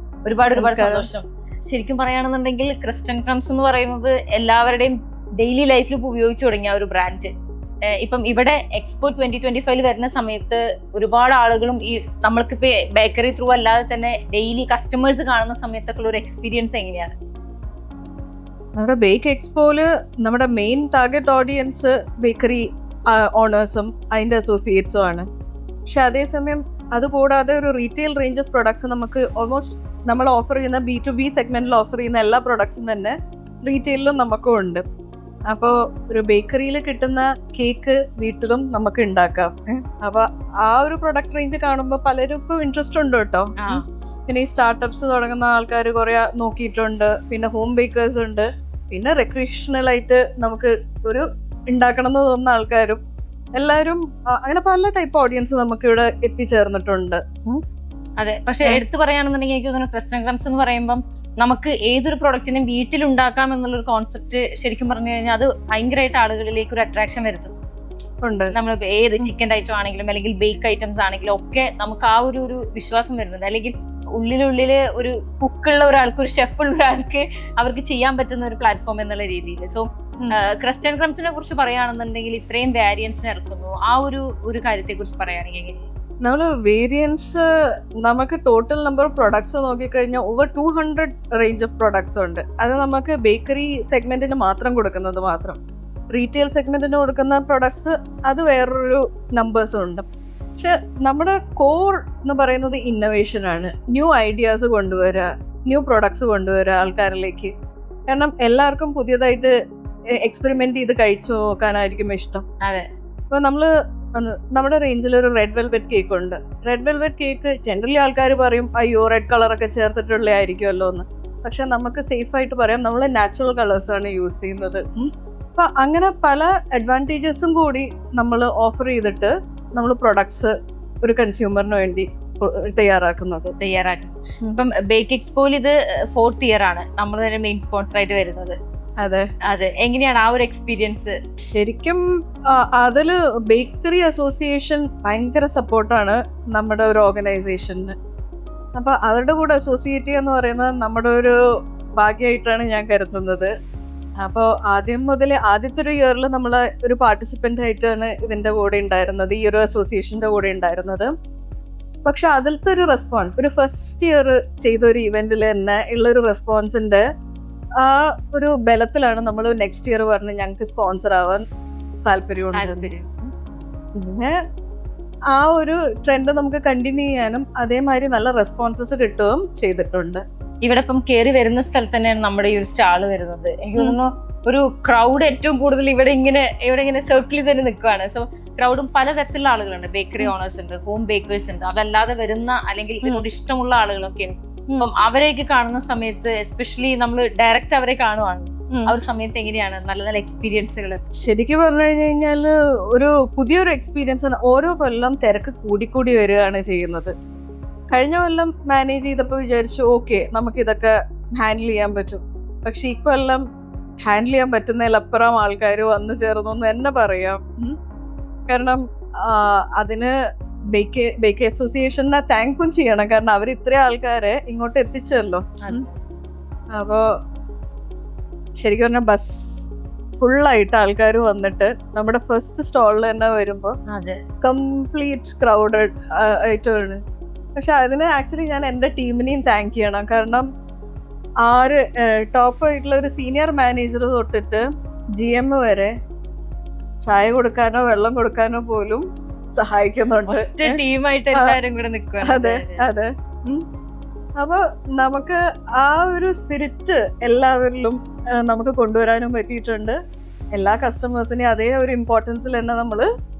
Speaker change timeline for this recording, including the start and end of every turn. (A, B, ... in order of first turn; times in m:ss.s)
0:00.2-0:07.3 A
0:00.6-0:01.1 B
0:07.9-0:17.2 A
0:18.8-0:25.3 B
0:25.9-0:34.8 B
0:35.5-0:53.0 B
0:43.6-0:43.8 A
0:53.6-0:57.6 B
0:58.2-1:07.6 A
1:08.2-1:08.5 B
1:08.5-1:25.9 A
1:26.2-1:27.4 B
1:28.0-1:35.6 B
1:36.1-1:40.1 B
1:40.6-1:47.5 B
1:48.1-1:49.5 B
1:50.2-1:52.4 B
1:52.6-1:52.9 A
1:53.3-2:13.5 B
2:13.6-2:18.6 A
2:19.0-2:19.3 B
2:19.5-2:21.2 A
2:21.4-2:28.0 B
2:28.8-2:31.4 B
2:32.0-2:33.5 B
2:34.2-2:41.1 B
2:42.0-2:47.0 B
2:47.8-2:51.4 B
2:52.1-2:52.9 B
2:52.6-2:53.3 A
2:54.0-2:54.4 B
2:55.3-3:00.2 B
3:00.6-3:21.0 A
3:21.2-3:27.1 B
3:27.9-3:33.4 B
3:34.1-3:37.8 B
3:38.5-3:40.1 B
3:40.7-3:45.8 B
3:45.6-3:46.0 A
3:46.8-3:47.0 B
3:48.6-3:53.8 B
3:53.9-3:54.2 A
3:54.4-3:57.0 B
3:57.6-4:00.5 B
4:01.4-4:04.7 B
4:05.2-4:05.9 B
4:07.0-4:09.0 B
4:09.6-4:10.8 B
4:10.6-4:12.9 A
4:12.2-4:13.6 B
4:14.4-4:20.0 B
4:20.6-4:23.1 B